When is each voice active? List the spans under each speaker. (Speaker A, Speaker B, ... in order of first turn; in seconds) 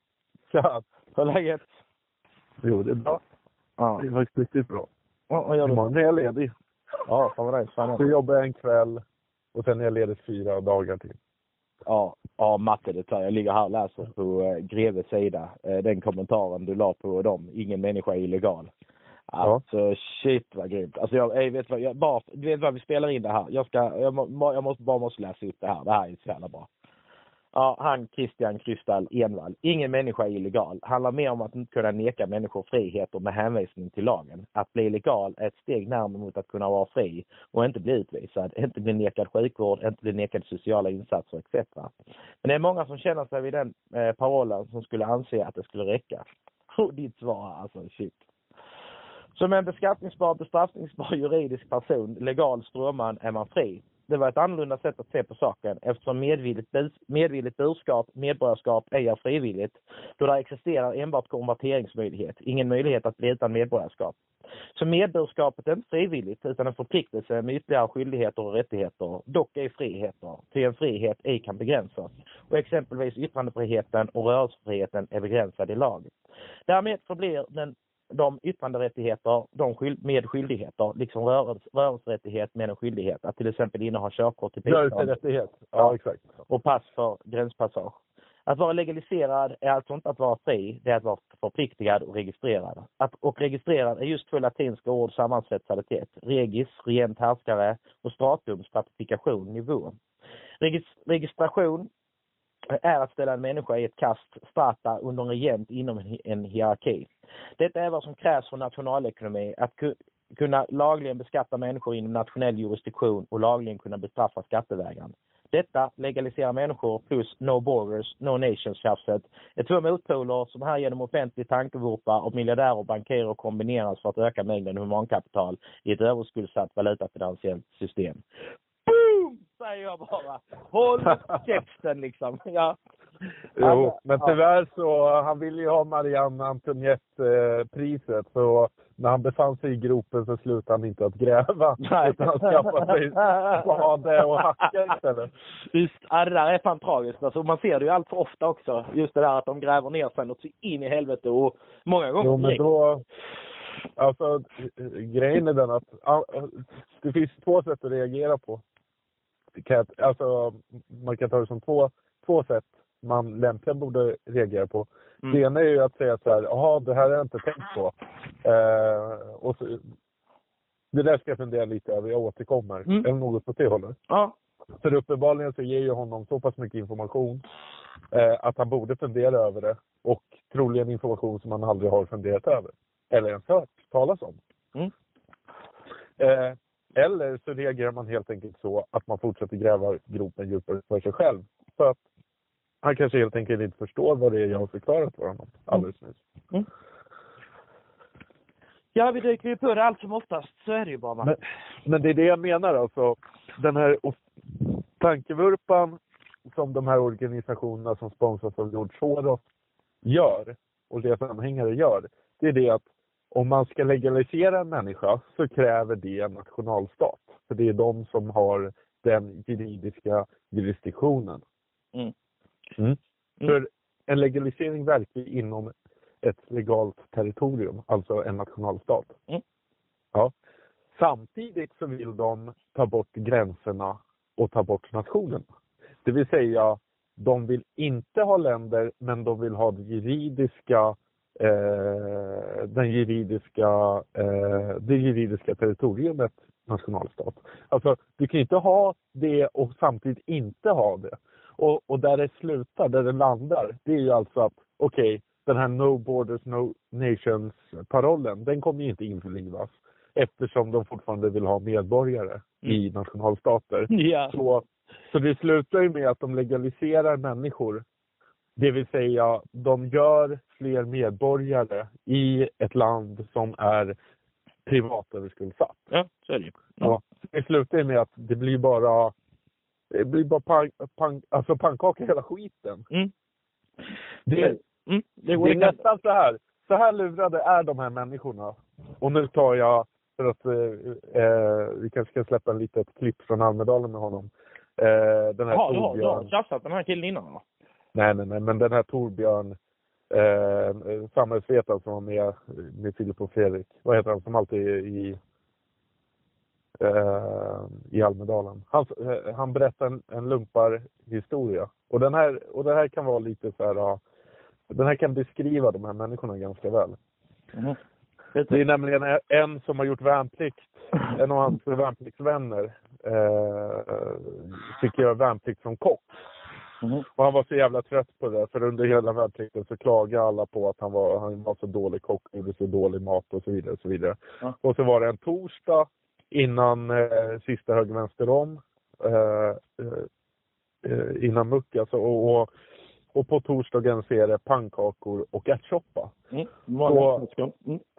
Speaker A: 0.5-0.8, 2.6-3.2, 4.0-4.9, 5.6-6.5, 8.0-9.0, 9.5-11.2, 84.6-86.4, 133.6-145.3, 152.2-153.0, 154.0-158.6, 159.5-169.8, 170.9-174.0, 174.8-177.4, 178.1-184.4, 186.2-192.0, 192.8-196.2, 201.2-206.0, 206.5-209.4, 210.0-221.4, 222.8-229.1, 230.9-235.4, 236.0-267.8, 268.6-273.9, 274.6-275.8, 276.8-279.1, 279.9-282.9, 284.2-284.6, 285.3-296.3, 297.9-299.5, 300.1-305.2, 306.8-314.0, 314.7-317.0, 318.5-326.1, 327.1-340.1, 340.8-342.5, 343.1-346.1, 346.8-347.3
Speaker B: 1.1-1.6, 3.8-4.0, 5.3-5.8, 7.1-8.1, 11.8-18.7, 19.3-26.7, 27.5-48.2, 49.3-64.2, 64.7-76.1, 76.7-85.1, 86.5-100.0, 100.6-101.9, 102.7-128.2, 128.8-132.8, 133.6-134.4, 141.8-143.7, 145.7-152.7, 174.1-174.3, 198.9-201.4, 263.9-264.4, 275.9-276.9, 284.4-285.8, 295.5-297.4, 326.8-327.1, 346.3-347.8